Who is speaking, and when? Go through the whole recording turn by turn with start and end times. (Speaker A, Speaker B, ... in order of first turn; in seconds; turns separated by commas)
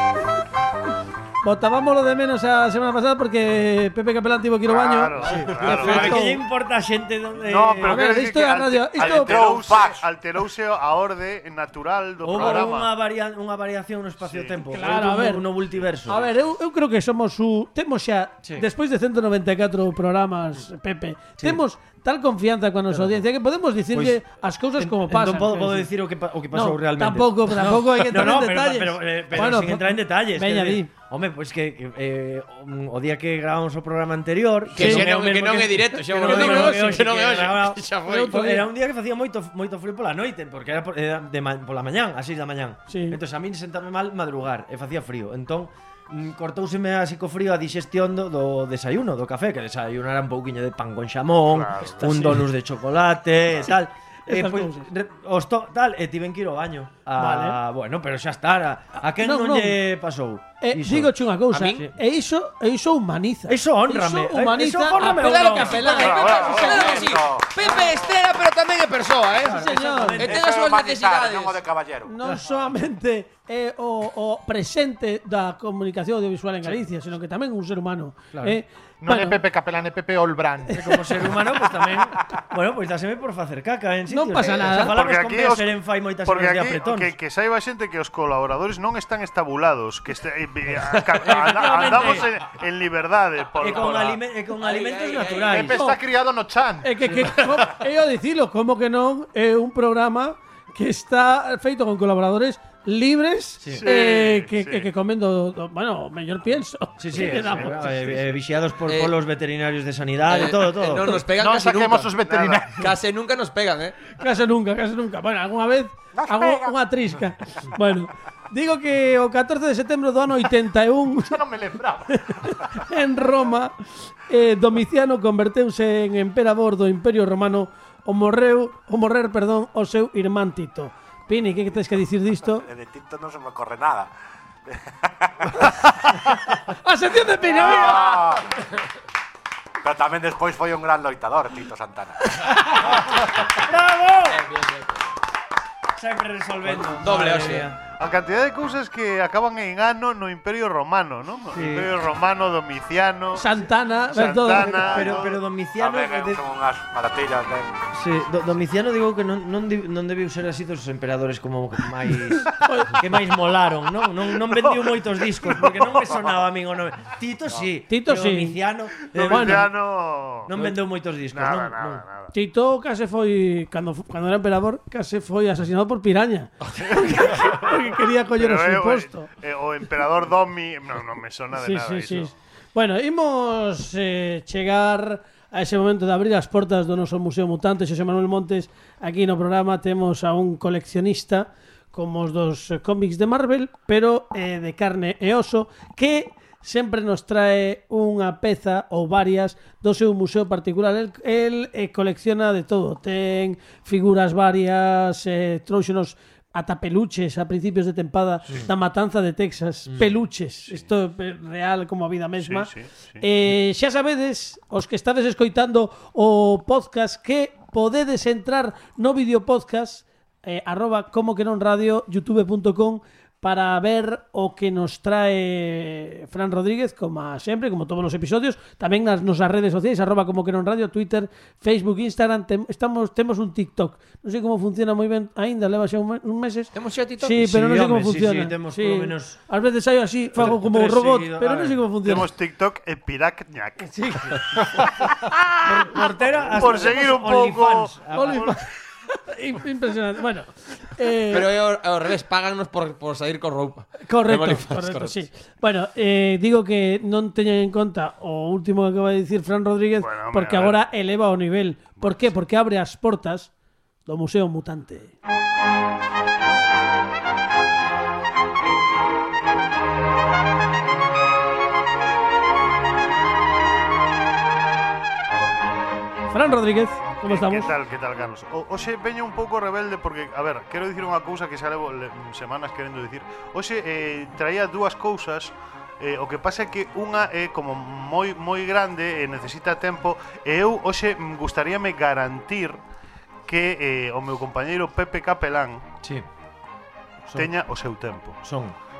Speaker A: 1.4-6.4, Speaker B: 4.6-6.2, Speaker C: 5.2-8.0, Speaker B: 7.4-12.9, Speaker A: 7.8-9.4, Speaker D: 9.0-10.0, Speaker C: 12.2-16.3, Speaker B: 14.2-14.6, Speaker A: 14.6-15.5, Speaker A: 16.1-25.9, Speaker C: 22.9-23.2, Speaker C: 23.9-24.2, Speaker C: 24.8-61.1, Speaker A: 26.5-30.9, Speaker E: 34.7-38.6, Speaker A: 34.8-35.1, Speaker A: 36.2-37.0, Speaker A: 38.1-38.6, Speaker A: 42.9-43.2, Speaker B: 51.5-52.4, Speaker A: 52.0-52.5, Speaker A: 54.3-54.9, Speaker A: 57.2-57.6, Speaker A: 59.1-59.8, Speaker A: 60.6-67.2, Speaker E: 61.5-61.8, Speaker C: 63.5-65.9, Speaker E: 65.0-71.6, Speaker B: 65.9-67.0, Speaker D: 66.4-67.5, Speaker C: 69.4-70.4, Speaker A: 69.4-70.3, Speaker D: 70.2-72.1, Speaker A: 72.0-79.4, Speaker C: 78.3-78.6, Speaker F: 79.0-81.8, Speaker A: 80.7-81.0, Speaker C: 80.7-87.1, Speaker A: 84.1-84.9, Speaker B: 84.7-85.7, Speaker B: 86.2-94.2, Speaker C: 90.8-92.3, Speaker C: 93.6-95.8, Speaker E: 94.5-95.8, Speaker F: 95.5-96.9, Speaker A: 96.8-108.0, Speaker C: 97.0-97.4, Speaker C: 103.6-103.8, Speaker B: 103.8-104.9, Speaker C: 107.0-111.2, Speaker E: 108.8-109.2, Speaker E: 110.2-112.2, Speaker F: 111.3-112.9, Speaker B: 112.2-112.7, Speaker E: 112.7-114.0, Speaker A: 114.2-121.4, Speaker F: 116.3-116.7, Speaker F: 121.2-122.6, Speaker A: 122.1-123.7, Speaker A: 124.3-132.7, Speaker D: 132.6-134.1, Speaker D: 134.7-135.8, Speaker A: 136.7-138.2, Speaker D: 137.5-138.5, Speaker D: 139.8-142.6, Speaker C: 143.6-144.4, Speaker E: 144.4-144.8, Speaker C: 145.9-147.8, Speaker E: 146.8-147.7, Speaker B: 147.9-153.5, Speaker C: 151.5-151.9, Speaker A: 153.3-155.1, Speaker B: 154.1-155.4, Speaker C: 154.6-156.4, Speaker D: 155.8-157.8, Speaker C: 157.9-169.7, Speaker A: 162.5-163.0, Speaker A: 167.9-168.6, Speaker B: 169.1-170.6, Speaker A: 169.1-169.7, Speaker C: 170.4-172.0, Speaker B: 171.3-172.3, Speaker A: 172.3-179.3, Speaker B: 176.9-177.7, Speaker B: 178.3-182.3, Speaker A: 181.5-242.3, Speaker C: 209.9-210.2, Speaker B: 212.4-213.2, Speaker E: 236.7-237.4, Speaker C: 237.3-239.4, Speaker C: 240.3-241.8, Speaker B: 242.0-244.5, Speaker A: 243.8-244.9, Speaker C: 245.6-248.5, Speaker B: 246.5-248.4, Speaker A: 248.1-251.5, Speaker E: 251.3-255.2, Speaker A: 254.0-263.5, Speaker B: 260.0-260.8, Speaker B: 262.0-262.3, Speaker A: 264.1-265.1, Speaker A: 276.3-277.7, Speaker B: 277.2-292.8, Speaker B: 293.5-295.8, Speaker B: 297.3-298.4, Speaker C: 298.4-298.7